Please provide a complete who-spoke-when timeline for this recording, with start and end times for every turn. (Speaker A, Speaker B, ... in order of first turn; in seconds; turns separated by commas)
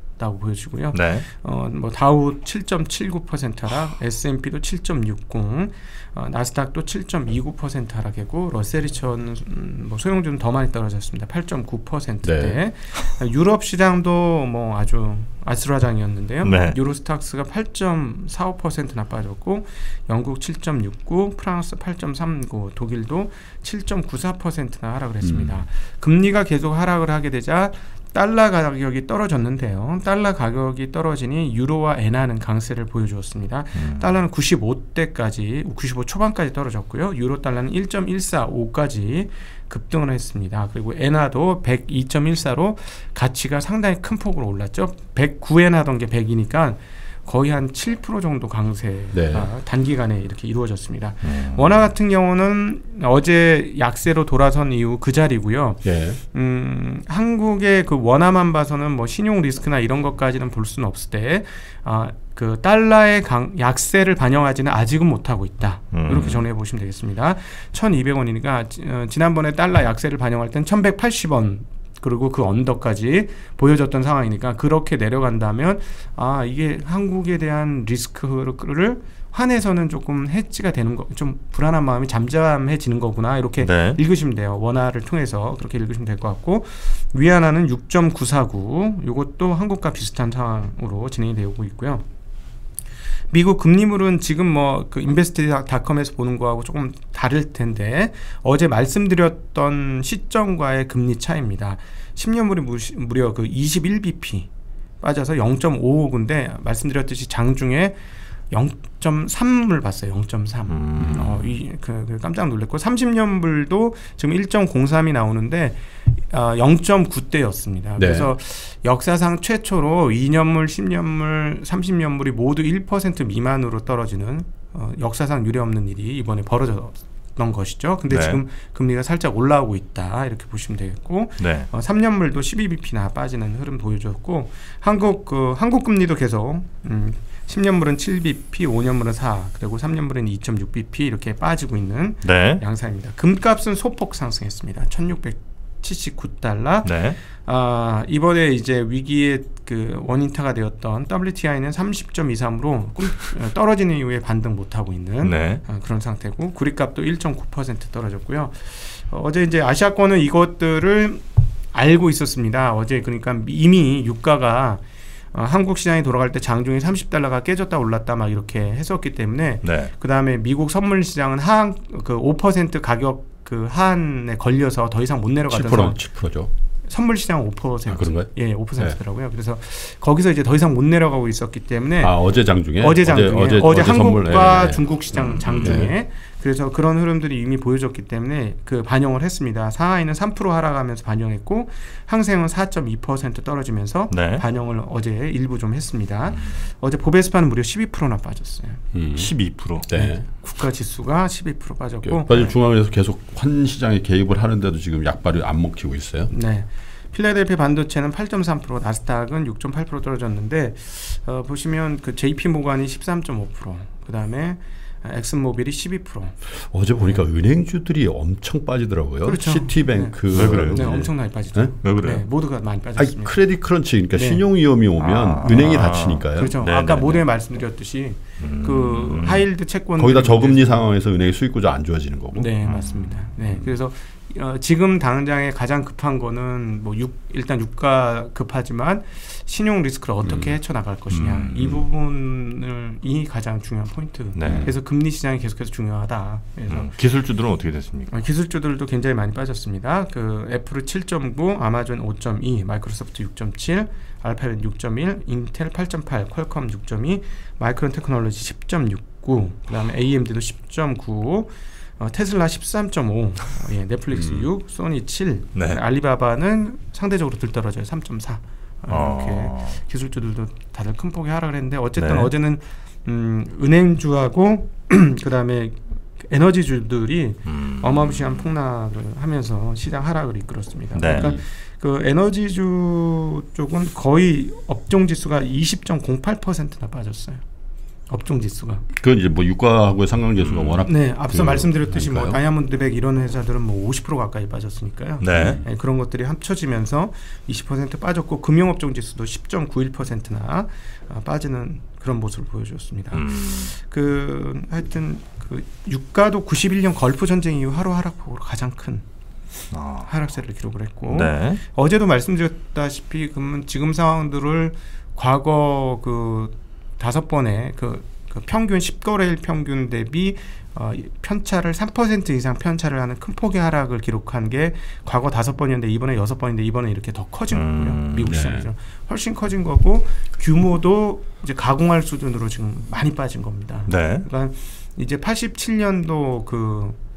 Speaker A: 0.2-92.0, Speaker B: 0.9-1.2, Speaker C: 12.2-12.6, Speaker B: 16.4-16.8, Speaker C: 25.2-25.6, Speaker B: 33.7-34.2, Speaker C: 49.1-49.5, Speaker B: 51.2-51.8, Speaker C: 55.8-56.2, Speaker B: 65.9-66.4, Speaker B: 83.6-84.0, Speaker A: 93.3-104.5, Speaker A: 105.0-108.0, Speaker A: 108.5-176.0, Speaker B: 110.7-111.4, Speaker C: 111.0-111.3, Speaker C: 118.0-118.3, Speaker B: 128.1-128.4, Speaker B: 131.4-131.7, Speaker B: 142.2-142.6, Speaker B: 146.8-147.2, Speaker B: 155.2-155.6, Speaker B: 169.6-169.9, Speaker C: 175.5-176.5, Speaker A: 176.9-182.2, Speaker C: 177.9-179.0, Speaker C: 182.0-184.9, Speaker A: 182.7-198.8, Speaker B: 185.1-185.8, Speaker C: 185.6-185.9, Speaker B: 194.1-194.4, Speaker B: 196.3-196.6, Speaker C: 198.9-199.3, Speaker B: 199.1-199.9, Speaker C: 199.9-200.2, Speaker A: 199.9-202.5, Speaker C: 202.0-206.3, Speaker A: 206.3-216.4, Speaker C: 216.5-221.7, Speaker A: 217.0-217.2, Speaker A: 219.2-223.4, Speaker B: 220.3-220.8, Speaker B: 221.8-222.2, Speaker C: 223.0-226.5, Speaker A: 224.1-224.4, Speaker B: 225.0-227.2, Speaker A: 226.3-230.9, Speaker B: 228.4-229.5, Speaker C: 230.0-232.5, Speaker A: 232.3-246.9, Speaker B: 232.6-233.3, Speaker C: 240.2-240.6, Speaker B: 241.1-241.8, Speaker B: 244.3-244.7, Speaker C: 244.4-244.7, Speaker B: 246.7-248.1, Speaker A: 248.1-287.4, Speaker C: 264.1-264.5, Speaker B: 268.9-269.8, Speaker B: 271.9-272.3, Speaker B: 277.4-278.5, Speaker B: 280.9-281.3, Speaker C: 281.1-281.4, Speaker A: 288.1-288.8, Speaker C: 288.9-292.4, Speaker B: 290.4-290.8, Speaker A: 290.8-309.0, Speaker B: 295.2-295.6, Speaker C: 295.3-295.6, Speaker B: 303.1-303.7, Speaker B: 309.7-310.1, Speaker A: 310.1-337.0, Speaker B: 311.1-311.6, Speaker B: 327.5-328.4, Speaker C: 328.3-328.7, Speaker B: 333.9-334.2